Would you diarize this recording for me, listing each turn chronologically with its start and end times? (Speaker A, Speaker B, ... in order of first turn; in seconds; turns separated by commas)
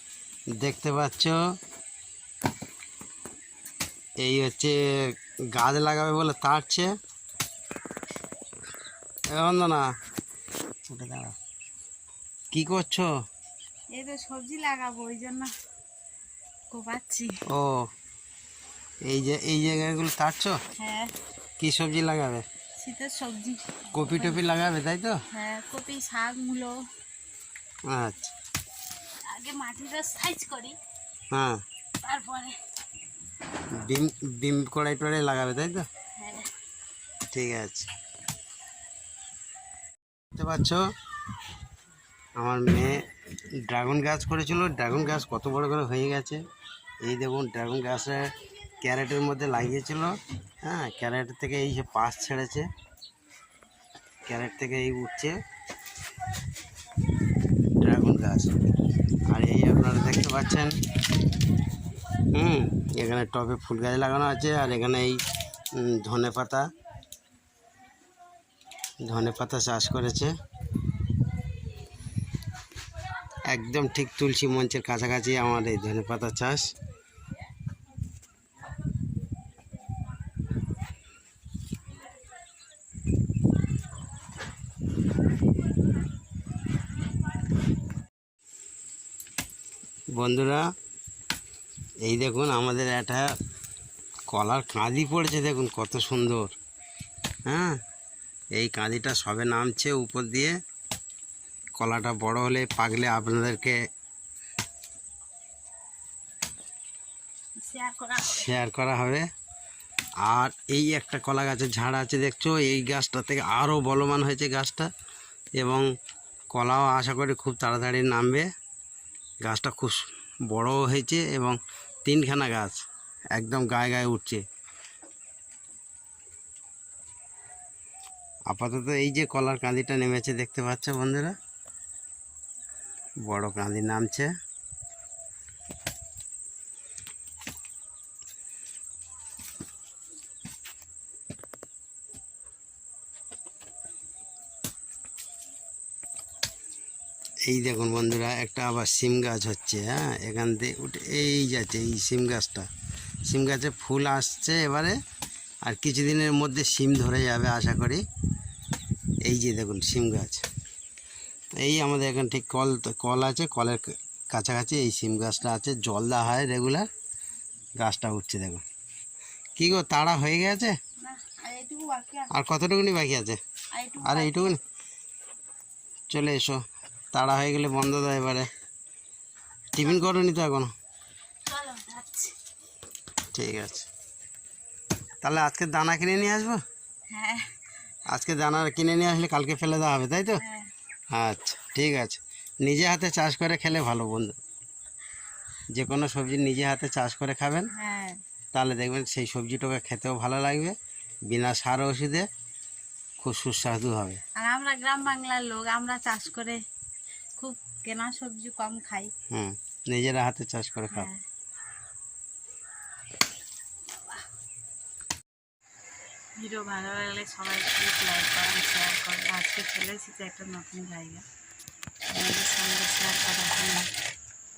Speaker A: 0.6-1.4, Speaker A: 4.2-4.8, Speaker A: 5.5-6.9, Speaker A: 9.3-9.9, Speaker A: 10.9-11.4, Speaker A: 12.5-13.1, Speaker B: 13.9-15.5, Speaker B: 16.7-17.3, Speaker A: 17.5-17.9, Speaker A: 19.1-20.6, Speaker B: 20.8-21.1, Speaker A: 21.6-22.4, Speaker B: 22.8-24.4, Speaker A: 23.9-25.2, Speaker B: 25.3-26.8, Speaker A: 27.9-28.3, Speaker B: 29.3-30.8, Speaker A: 31.3-31.6, Speaker B: 32.0-32.5, Speaker A: 33.8-35.9, Speaker B: 36.2-36.5, Speaker A: 37.3-37.9, Speaker A: 40.3-40.8, Speaker A: 42.4-43.0, Speaker A: 43.6-46.4, Speaker A: 47.0-52.7, Speaker A: 54.3-55.4, Speaker A: 57.8-58.5, Speaker A: 59.3-60.7, Speaker A: 62.3-65.2, Speaker A: 65.7-66.7, Speaker A: 69.0-70.3, Speaker A: 73.5-76.7, Speaker A: 90.2-90.6, Speaker A: 92.0-93.3, Speaker A: 94.3-96.5, Speaker A: 97.5-97.8, Speaker A: 98.6-100.5, Speaker A: 101.8-103.8, Speaker B: 107.6-108.5, Speaker A: 108.2-109.2, Speaker A: 110.2-114.9, Speaker A: 115.6-115.9, Speaker A: 116.5-118.5, Speaker A: 119.4-122.8, Speaker A: 123.3-124.4, Speaker A: 128.5-131.3, Speaker A: 133.2-134.3, Speaker A: 147.4-152.7, Speaker A: 153.3-155.0, Speaker A: 155.6-158.0, Speaker A: 159.2-160.5, Speaker A: 161.6-166.9, Speaker A: 167.8-168.6, Speaker A: 169.6-170.8, Speaker B: 171.0-172.3, Speaker A: 172.3-173.4, Speaker B: 173.7-174.6, Speaker A: 174.0-174.6, Speaker A: 176.1-176.6, Speaker A: 177.1-178.5, Speaker A: 179.7-180.7, Speaker B: 181.5-182.4, Speaker A: 183.3-183.9, Speaker A: 185.2-186.6, Speaker B: 187.1-187.5, Speaker A: 188.1-190.4, Speaker B: 190.4-190.7, Speaker A: 191.1-194.4, Speaker A: 195.7-197.7, Speaker B: 197.7-198.2, Speaker A: 198.5-200.8, Speaker A: 201.3-202.3, Speaker A: 203.2-204.2, Speaker B: 204.4-206.6, Speaker B: 207.4-209.1, Speaker A: 209.3-211.1, Speaker B: 210.9-211.2, Speaker B: 216.4-221.2, Speaker B: 222.1-223.9